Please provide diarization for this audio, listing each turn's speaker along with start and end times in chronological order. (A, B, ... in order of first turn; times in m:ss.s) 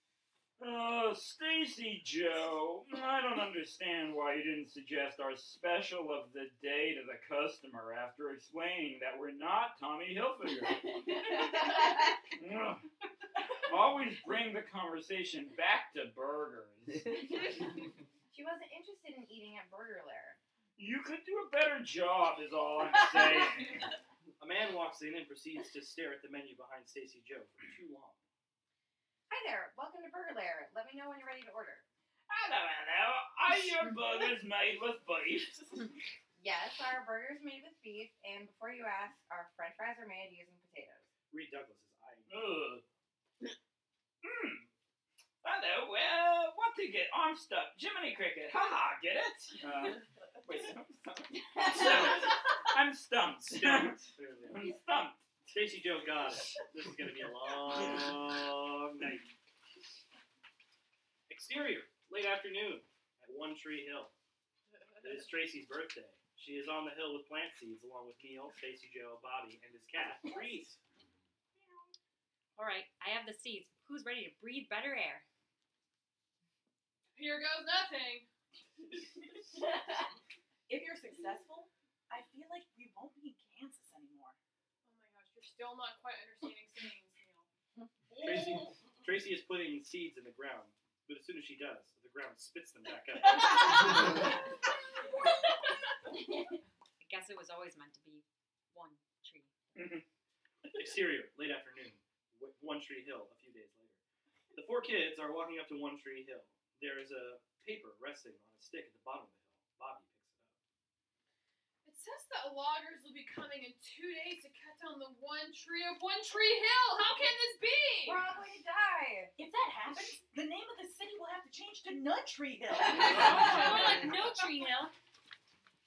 0:00.6-0:12.8 A
0:13.6-0:17.2 A
0:18.3-0:20.4 B
0:20.8-0:23.8 A
0:24.4-0:28.2 C
0:29.3-0:31.8 B
0:32.3-0:35.9 A
0:36.4-0:41.1 B
0:41.3-0:42.3 C
0:42.3-0:42.8 A
0:44.2-0:44.6 A
0:45.4-0:55.2 A
0:53.4-0:54.6 C
0:55.5-0:59.3 C
1:01.3-1:04.1 C
1:05.0-1:10.8 C
1:12.6-1:15.2 D
1:17.1-1:18.3 E
1:20.7-1:24.4 F
1:24.8-1:27.5 E
1:28.2-1:33.8 C
1:36.2-1:36.5 B
1:37.0-1:39.5 D
1:39.8-1:40.0 A
1:40.7-1:44.0 C
1:44.5-1:50.5 C
1:51.8-1:58.2 E
1:58.0-1:59.3 B
1:59.4-2:03.8 F
2:02.9-2:04.9 D
2:03.0-2:03.4 C